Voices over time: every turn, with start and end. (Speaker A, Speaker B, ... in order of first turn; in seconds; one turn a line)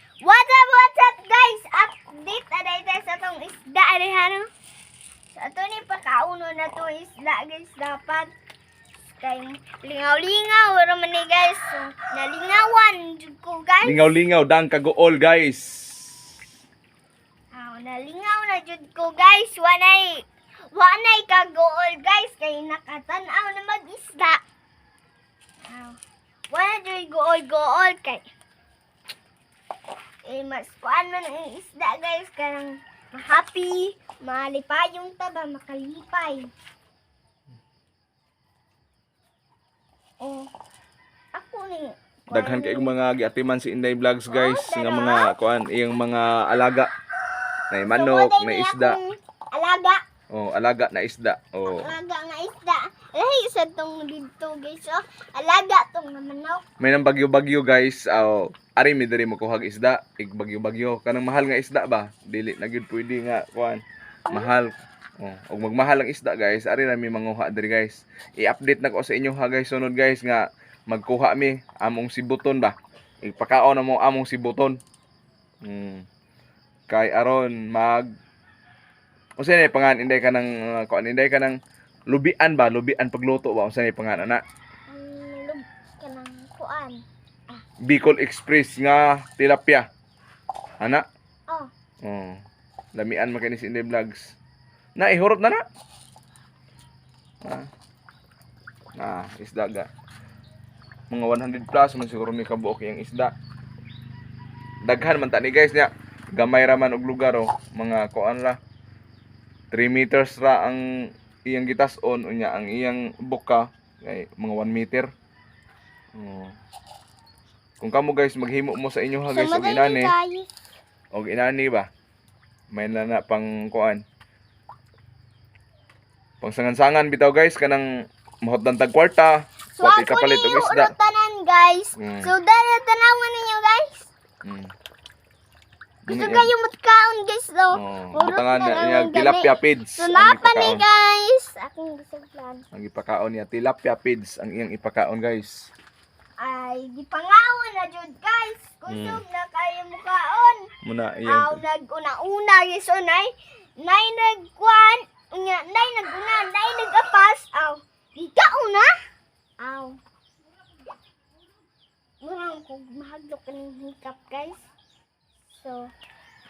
Speaker A: 0.2-4.5
Speaker A: 5.3-8.3
Speaker A: 9.1-14.1
Speaker B: 13.8-16.3
Speaker A: 17.5-24.4
Speaker A: 25.6-26.0
Speaker A: 26.5-28.2
Speaker A: 30.2-36.5
Speaker A: 40.2-40.5
Speaker A: 41.4-42.9
Speaker B: 42.3-46.9
Speaker A: 44.3-45.3
Speaker B: 47.7-49.0
Speaker A: 47.9-50.0
Speaker B: 50.3-51.9
Speaker A: 51.7-56.6
Speaker B: 56.8-74.8
Speaker B: 75.6-76.1
Speaker B: 76.9-78.1
Speaker B: 79.4-81.6
Speaker B: 82.1-84.4
Speaker A: 84.9-87.6
Speaker B: 87.8-89.9
Speaker B: 90.8-91.0
Speaker B: 92.0-92.4
Speaker B: 93.0-94.3
Speaker B: 95.0-95.6
Speaker B: 99.0-99.9
Speaker B: 101.1-103.3
Speaker B: 104.9-108.6
Speaker B: 109.7-110.8
Speaker B: 111.5-115.1
Speaker B: 116.1-116.6
Speaker B: 117.8-120.1
Speaker A: 119.3-120.5
Speaker B: 121.1-121.9
Speaker B: 122.7-124.0
Speaker B: 126.4-127.9
Speaker B: 128.4-130.9
Speaker A: 129.8-134.1
Speaker B: 132.0-132.3
Speaker B: 134.4-134.7
Speaker B: 136.1-136.5
Speaker A: 136.1-142.6
Speaker B: 137.8-140.8
Speaker B: 142.7-145.7
Speaker A: 146.4-150.7
Speaker B: 148.9-149.2
Speaker B: 150.8-151.6
Speaker A: 151.3-158.9
Speaker A: 159.6-160.0
Speaker A: 162.2-164.6
Speaker A: 165.5-165.9